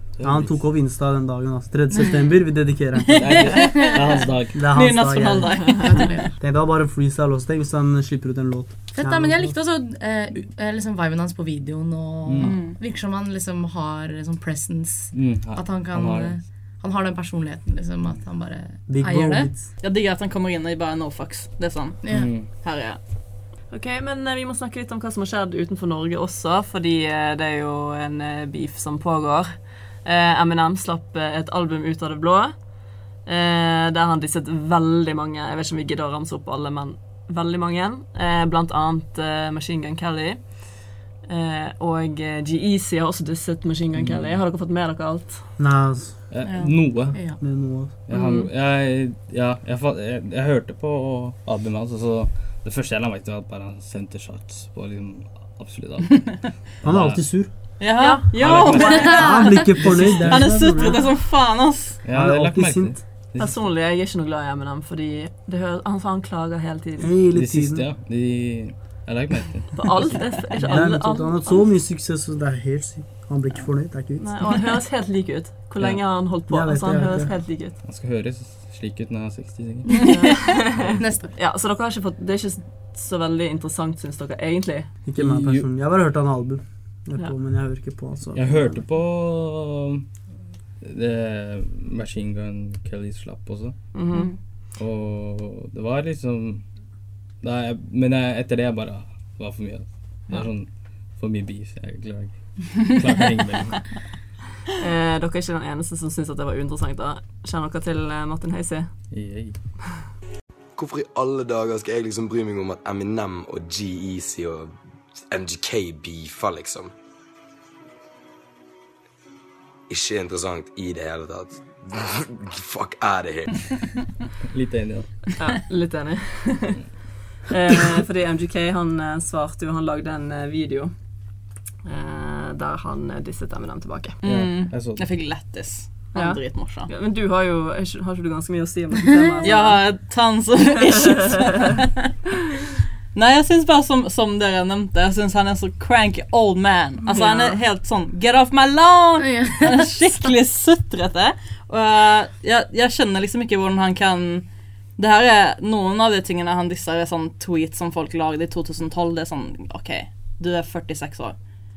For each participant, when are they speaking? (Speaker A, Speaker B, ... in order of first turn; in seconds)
Speaker A: 0.1-0.6, 3.1-4.7, 12.2-12.6, 15.1-16.4, 22.1-22.5, 43.9-44.4, 46.3-47.2, 48.1-57.2, 58.4-60.5, 62.0-63.6, 67.3-70.9, 75.8-76.3, 77.8-80.1, 80.7-81.0, 85.2-85.7, 88.3-90.0, 90.8-93.8, 94.7-96.6, 97.4-104.0, 109.1-109.6, 124.5-125.3, 134.2-135.1
Speaker B: 0.2-3.7, 4.5-5.8, 6.4-9.5, 18.9-19.7, 45.6-46.3, 47.2-47.9, 56.8-57.5, 59.2-61.0, 62.1-63.0, 67.0-67.8, 70.7-74.4, 76.5-77.3, 85.0-88.8
Speaker C: 1.9-2.4, 3.6-4.3, 5.8-6.3, 8.9-19.5, 22.0-22.3, 46.5-47.4, 81.0-81.3, 147.1-147.6, 149.2-150.3
Speaker D: 3.3-4.0, 4.7-6.2, 12.4-12.8, 19.8-23.0, 57.8-62.0, 134.2-136.9, 139.4-141.9, 143.1-161.5
Speaker E: 23.7-32.7, 33.2-45.5, 48.1-48.5, 58.0-60.0, 63.4-67.1, 69.8-71.7, 74.2-77.8, 80.0-84.9, 93.9-94.4, 104.8-109.3, 125.4-131.1, 131.8-134.2, 136.1-139.9
Speaker F: 110.8-116.9, 119.9-123.7